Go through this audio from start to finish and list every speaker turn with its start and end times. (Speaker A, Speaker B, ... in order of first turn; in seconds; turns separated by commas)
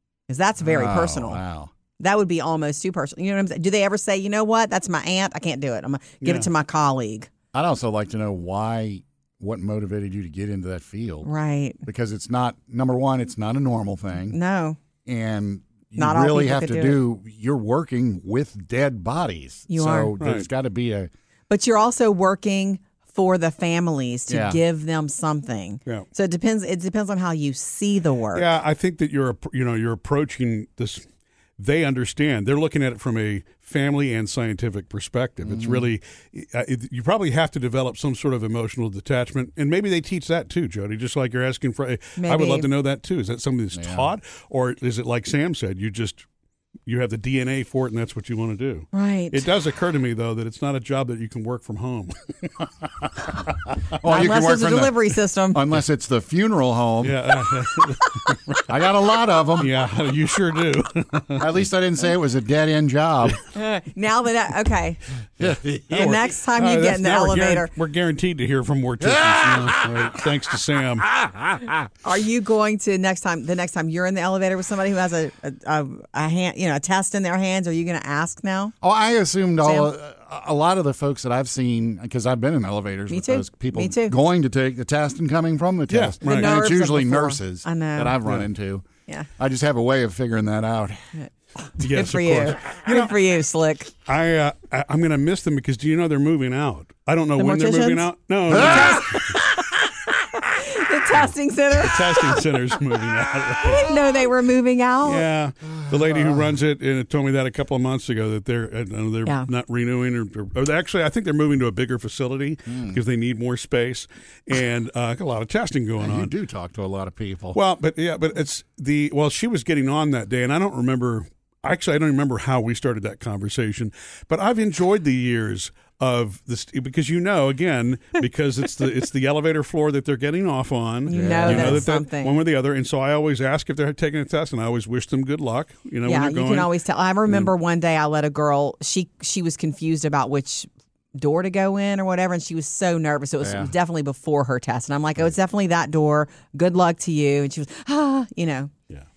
Speaker A: 0.3-1.4, Speaker B: 0.6-1.7, Speaker A: 2.0-7.3, Speaker C: 6.2-6.5, Speaker B: 7.5-11.3, Speaker A: 11.2-11.8, Speaker B: 11.8-14.4, Speaker A: 14.3-14.8, Speaker B: 15.1-21.1, Speaker A: 16.0-17.0, Speaker A: 19.7-20.1, Speaker C: 20.2-20.5, Speaker A: 21.5-28.5, Speaker B: 24.3-24.6, Speaker C: 28.3-31.1, Speaker C: 31.6-46.2, Speaker B: 35.5-35.9, Speaker A: 42.2-42.7, Speaker B: 43.7-44.1, Speaker C: 46.9-53.7, Speaker A: 48.9-49.4, Speaker B: 54.0-55.0, Speaker A: 54.0-55.6, Speaker B: 55.5-57.1, Speaker C: 57.0-58.7, Speaker B: 58.7-59.7, Speaker C: 59.6-61.5, Speaker B: 61.4-63.4, Speaker A: 63.5-65.0, Speaker B: 65.4-65.8, Speaker C: 65.9-71.2, Speaker A: 65.9-67.7, Speaker B: 69.1-69.7, Speaker A: 72.0-78.7, Speaker B: 78.8-88.9, Speaker A: 79.6-79.9, Speaker A: 83.1-84.2, Speaker C: 85.9-86.5, Speaker A: 86.2-88.2, Speaker B: 89.4-91.0, Speaker C: 91.8-93.1, Speaker A: 91.8-93.9, Speaker C: 94.0-99.2, Speaker A: 97.4-99.5, Speaker A: 100.4-102.4, Speaker C: 101.8-104.0, Speaker A: 103.6-105.2, Speaker C: 105.0-116.3, Speaker B: 105.9-106.3, Speaker B: 112.7-113.0, Speaker B: 116.0-117.6, Speaker C: 117.5-136.7, Speaker A: 131.1-132.4, Speaker B: 131.1-131.8, Speaker A: 136.0-148.7, Speaker B: 143.4-143.7